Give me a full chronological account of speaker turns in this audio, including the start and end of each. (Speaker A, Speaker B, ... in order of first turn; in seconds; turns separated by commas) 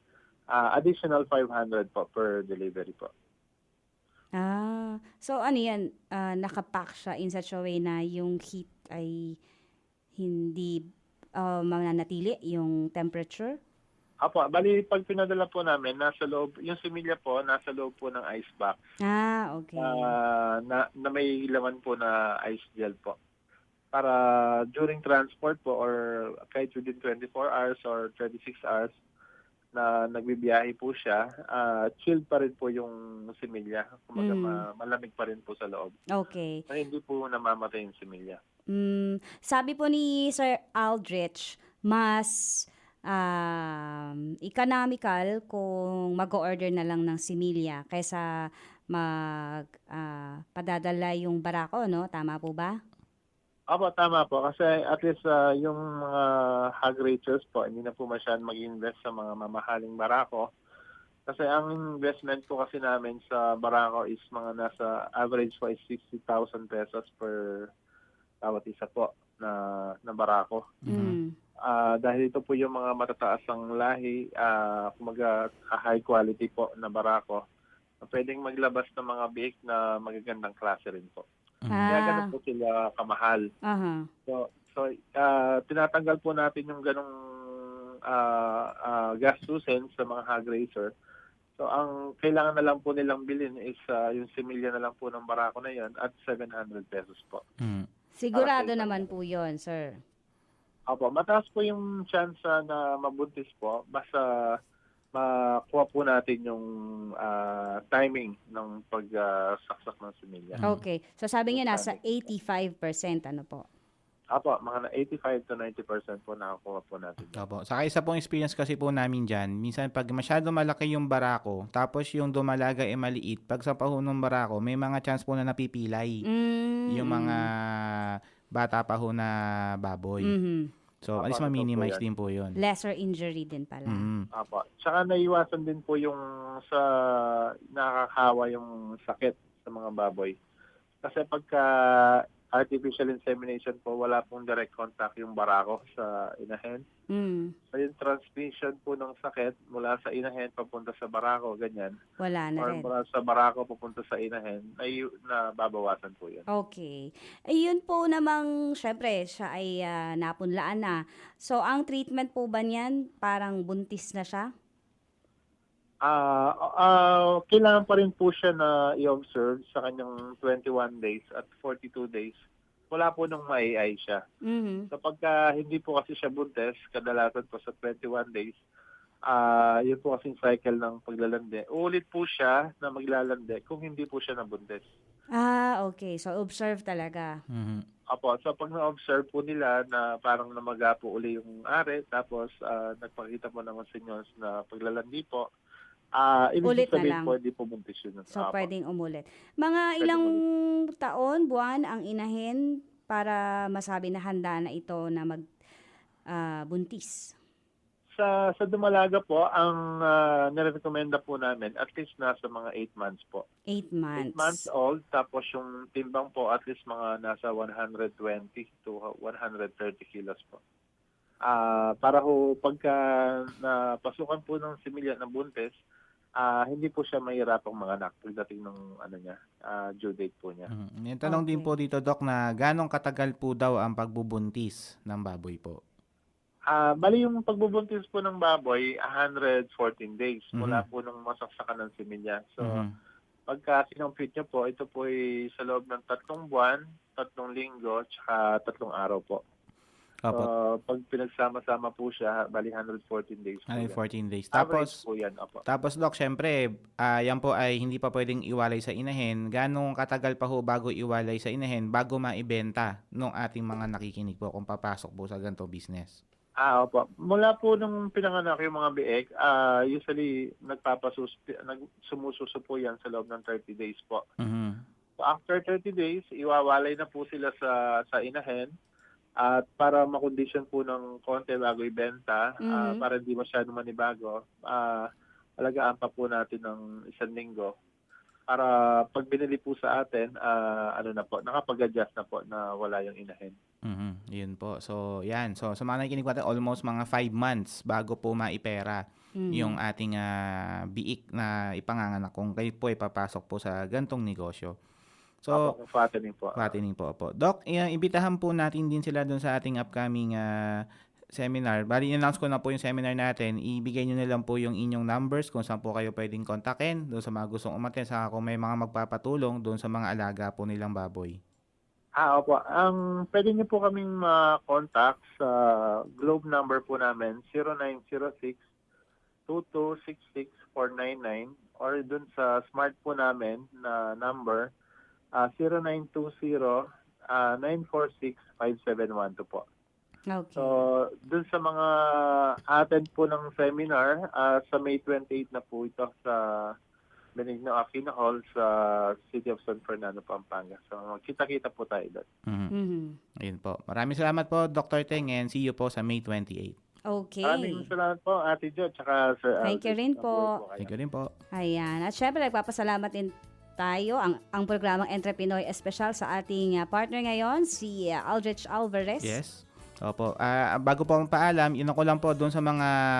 Speaker A: 0.5-3.1, Speaker B: 4.4-9.2, Speaker B: 10.2-10.8, Speaker B: 11.4-13.5, Speaker A: 14.2-18.8, Speaker B: 19.0-20.1, Speaker A: 19.8-23.1, Speaker A: 23.9-28.9, Speaker A: 29.7-35.9, Speaker B: 34.2-34.6, Speaker B: 36.1-36.6, Speaker A: 36.7-38.4, Speaker B: 38.7-48.2, Speaker B: 48.9-52.7, Speaker A: 53.7-60.5, Speaker A: 61.3-67.5, Speaker A: 68.4-70.6, Speaker C: 70.8-71.2, Speaker B: 70.9-71.3, Speaker A: 71.7-77.4, Speaker A: 78.0-81.2, Speaker B: 81.7-82.3, Speaker A: 81.9-83.4, Speaker B: 83.7-84.0, Speaker A: 84.3-87.1, Speaker A: 88.1-90.9, Speaker A: 91.6-97.4, Speaker C: 97.6-97.9, Speaker B: 98.2-99.9, Speaker A: 98.3-99.1, Speaker A: 100.9-104.2, Speaker A: 105.2-106.7, Speaker A: 107.2-110.6, Speaker C: 110.5-110.8, Speaker B: 110.6-113.6, Speaker A: 111.5-112.0, Speaker A: 114.3-117.4, Speaker C: 117.3-126.2, Speaker B: 126.3-127.5, Speaker C: 126.9-129.3, Speaker C: 129.8-130.3, Speaker B: 130.2-130.7, Speaker C: 131.0-132.5, Speaker A: 131.2-132.0, Speaker B: 132.6-134.1, Speaker C: 133.9-134.2, Speaker A: 134.3-136.8, Speaker A: 137.7-140.3, Speaker A: 141.0-146.8, Speaker B: 147.1-147.5, Speaker A: 147.7-151.9, Speaker B: 152.2-152.9, Speaker A: 152.6-156.4, Speaker B: 156.5-156.9, Speaker B: 157.5-164.5, Speaker A: 166.1-172.3, Speaker A: 172.9-174.2, Speaker B: 174.4-174.8, Speaker A: 174.9-178.6, Speaker A: 179.3-184.8, Speaker B: 185.4-187.3, Speaker C: 187.5-187.8, Speaker A: 188.1-195.4, Speaker A: 196.2-198.7, Speaker B: 196.6-197.3, Speaker B: 198.3-200.4, Speaker A: 200.0-200.4, Speaker B: 201.0-205.4, Speaker B: 206.3-207.3, Speaker A: 208.2-213.4, Speaker B: 213.7-214.6, Speaker A: 214.2-220.6, Speaker A: 221.5-225.7, Speaker A: 226.4-230.7, Speaker C: 230.7-235.8, Speaker B: 231.2-231.7, Speaker A: 236.7-242.8, Speaker C: 240.6-240.8, Speaker C: 242.6-242.9, Speaker A: 243.5-249.4, Speaker A: 250.3-254.0, Speaker C: 253.7-254.9, Speaker A: 254.6-255.6, Speaker C: 255.7-266.2, Speaker A: 266.6-274.2, Speaker C: 274.4-274.8, Speaker A: 275.2-278.7, Speaker A: 279.4-285.0, Speaker B: 282.6-283.0, Speaker A: 285.6-287.7, Speaker A: 288.5-293.6, Speaker C: 293.9-300.3, Speaker B: 299.4-299.8, Speaker C: 300.9-304.7, Speaker A: 305.5-306.7, Speaker C: 306.6-310.8, Speaker C: 311.3-321.4, Speaker A: 322.2-328.6, Speaker A: 329.5-334.7, Speaker A: 335.4-336.8, Speaker A: 337.3-339.6, Speaker B: 340.3-340.8, Speaker A: 340.6-341.9, Speaker A: 342.7-346.4, Speaker A: 347.4-352.2, Speaker B: 352.7-353.1, Speaker C: 353.4-356.8, Speaker B: 357.1-357.9, Speaker A: 357.4-360.9, Speaker B: 359.6-360.5, Speaker C: 360.8-361.3, Speaker B: 361.6-369.4, Speaker C: 369.2-372.9